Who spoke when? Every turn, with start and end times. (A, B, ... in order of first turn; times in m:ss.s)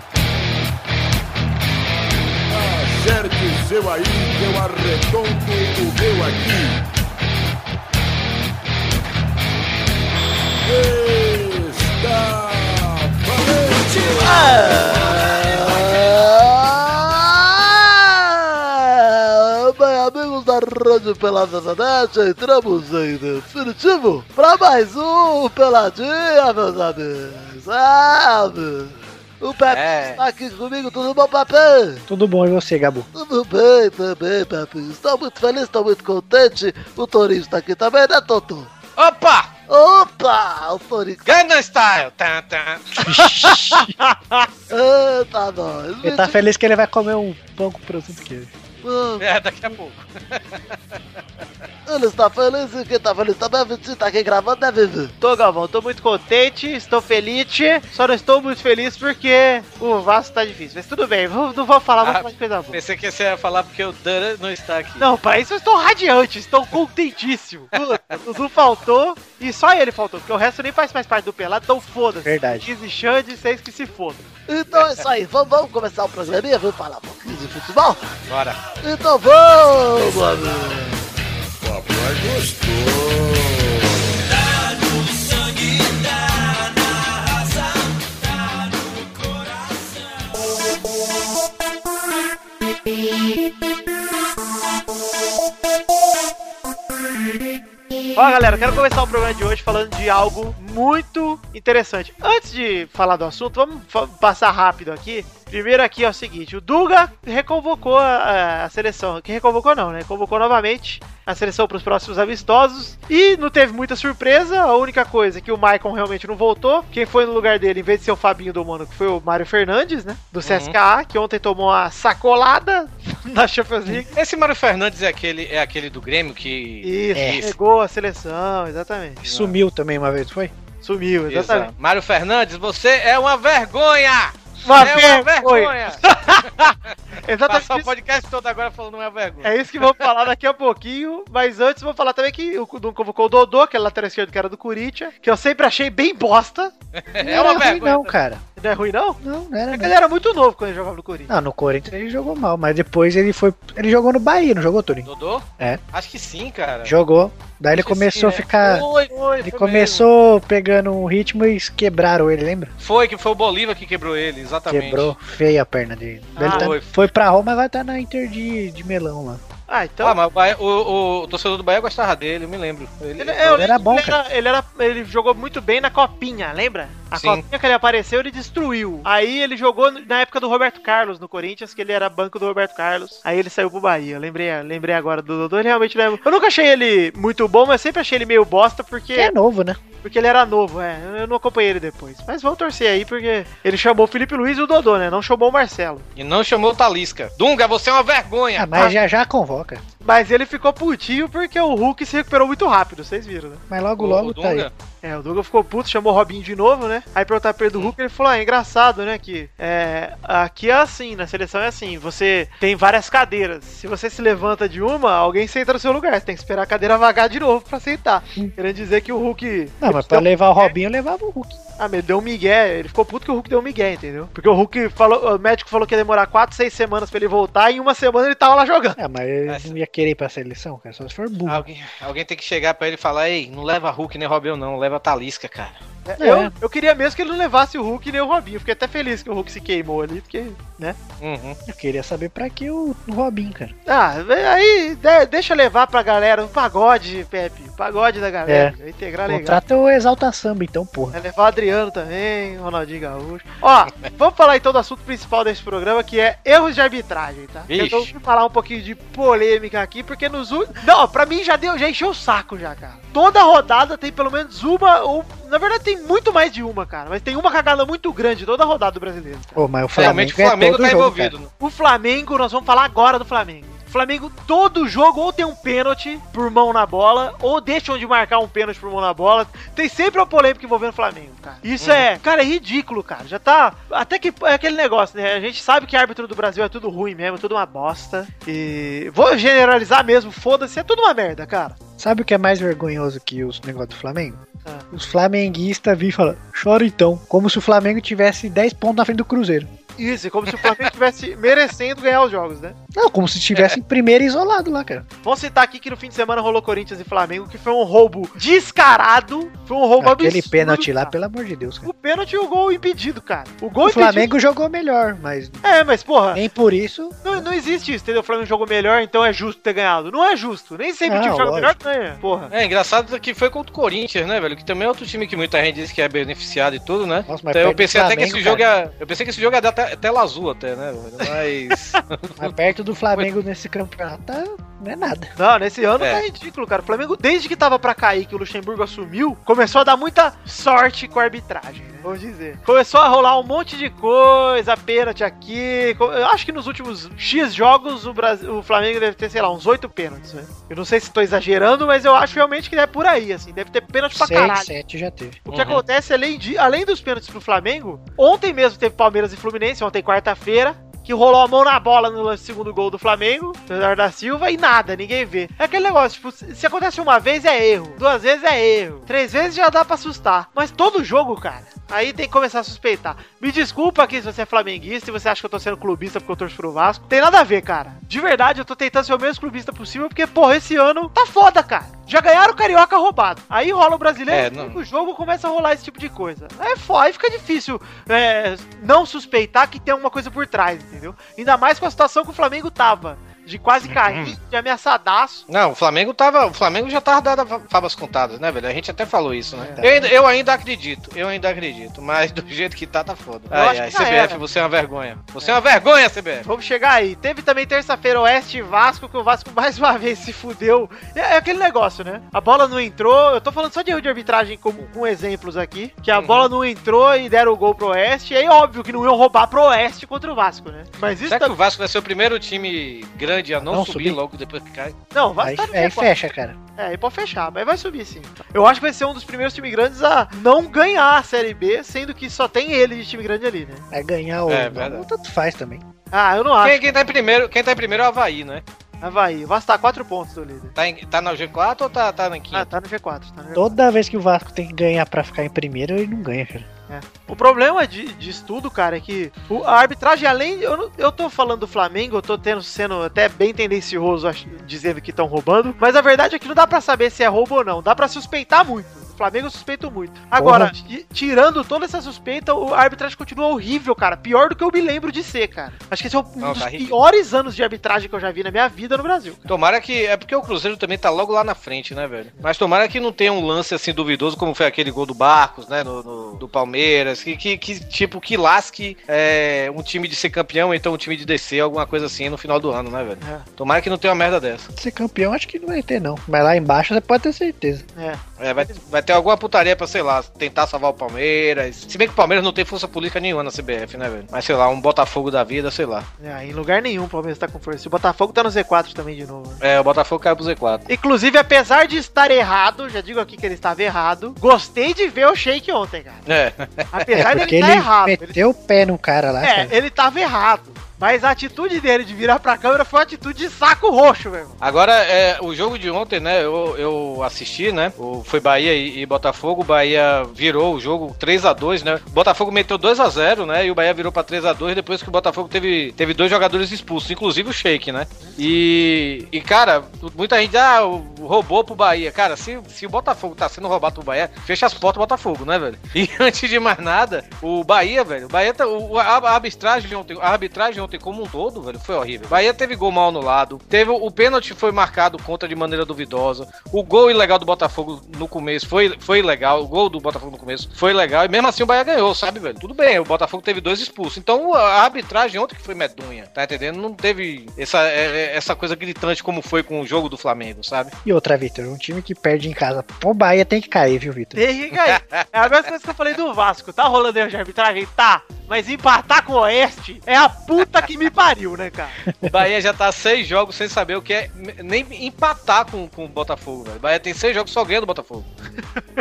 0:02.5-0:06.9 A
0:10.6-0:15.1 A
0:13.8-0:32.0 B
0:29.7-0:30.2 C
0:32.1-0:33.1 D
0:33.1-0:38.7 B
0:39.0-0:39.5 C
0:39.7-0:41.2 B
0:41.2-0:42.9 C
0:42.9-0:43.9 D
0:43.1-0:44.5 E
0:44.7-0:46.4 B
0:46.0-0:48.5 D
0:48.8-0:49.2 B
0:49.2-0:51.0 C
0:51.9-0:55.1 B
0:55.2-1:02.8 E
1:02.0-1:05.1 C
1:05.0-1:14.3 E
1:12.2-1:12.7 D
1:14.5-1:18.1 B
1:14.7-1:15.0 C
1:18.3-1:18.6 C
1:18.8-1:21.0 B
1:21.6-1:24.2 A
1:38.2-2:04.1 E
2:00.4-2:00.8 C
2:04.1-2:07.5 C
2:06.8-2:09.2 E
2:07.2-2:07.4 D
2:09.2-2:09.5 C
2:09.2-2:10.5 D
2:10.8-2:11.7 E
2:11.3-2:16.9 C
2:14.6-2:17.9 E
2:17.5-2:20.0 C
2:19.4-2:26.7 E
2:26.9-2:28.1 C
2:27.2-2:28.4 D
2:28.6-2:31.3 E
2:29.2-2:29.9 D
2:31.3-2:35.1 D
2:35.0-2:36.9 C
2:36.8-2:38.9 D
2:37.7-2:40.0 C
2:39.4-2:42.7 D
2:42.8-2:45.1 C
2:44.7-2:49.4 D
2:46.4-2:46.7 E
2:46.4-2:47.0 C
2:49.7-2:50.2 E
2:50.0-2:53.6 C
2:53.2-3:09.3 E
2:53.5-2:54.2 D
2:57.2-2:57.4 C
3:09.2-3:09.8 D
3:10.0-3:16.1 E
3:16.2-3:18.7 C
3:18.6-3:19.8 D
3:20.0-3:23.6 E
3:23.7-3:24.7 D
3:24.0-3:24.7 C
3:25.0-3:40.7 E
3:39.8-3:41.6 D
3:41.8-3:49.0 E
3:49.0-3:51.6 D
3:49.5-3:49.7 C
3:51.5-3:55.8 C
3:56.1-4:01.0 E
3:56.2-3:56.5 D
4:01.2-4:01.6 C
4:01.7-4:03.7 D
4:03.9-4:09.6 E
4:08.5-4:08.7 D
4:09.3-4:11.2 D
4:11.1-4:29.6 E
4:17.7-4:18.1 C
4:29.6-4:31.3 D
4:30.0-4:31.5 C
4:31.6-4:51.8 E
4:41.8-4:42.1 C
4:52.0-4:59.7 D
5:00.0-5:02.8 E
5:02.9-5:05.1 D
5:05.2-5:11.1 E
5:10.0-5:11.9 D
5:11.8-5:14.3 E
5:13.8-5:15.6 D
5:15.6-5:16.4 E
5:16.3-5:17.4 D
5:17.2-5:22.5 E
5:21.1-5:21.8 D
5:22.5-5:32.5 C
5:27.3-5:28.6 D
5:32.4-5:35.3 D
5:35.4-5:54.7 E
5:54.1-5:55.4 D
5:55.4-6:35.4 E
5:55.5-5:55.8 C
6:24.3-6:24.8 C
6:33.9-6:34.4 C
6:35.5-6:46.4 C
6:39.8-6:40.1 D
6:43.5-6:44.4 E
6:46.4-7:01.5 E
6:56.1-6:56.5 C
7:01.2-7:05.0 C
7:03.6-7:04.2 D
7:05.1-7:06.1 E
7:05.4-7:06.6 D
7:06.8-7:13.8 E
7:13.9-7:15.8 D
7:14.5-7:15.1 C
7:16.1-7:17.0 E
7:16.6-7:18.6 C
7:19.0-7:20.7 E
7:20.8-7:22.7 C
7:22.5-7:23.8 E
7:23.6-7:26.7 D
7:26.9-7:49.5 E
7:40.4-7:40.7 D
7:46.4-7:46.9 C
7:49.5-8:04.7 C
8:04.7-8:07.8 D
8:08.0-8:08.2 E
8:08.4-8:16.1 C
8:16.2-8:19.6 E
8:19.6-8:20.9 C
8:20.9-8:26.2 E
8:26.3-8:27.0 C
8:26.9-8:28.4 E
8:27.1-8:29.7 D
8:29.4-8:34.6 E
8:34.6-9:20.9 C
9:21.0-9:24.4 D
9:24.3-9:32.0 E
9:24.8-9:25.2 C
9:32.1-9:32.3 D
9:32.2-9:38.3 C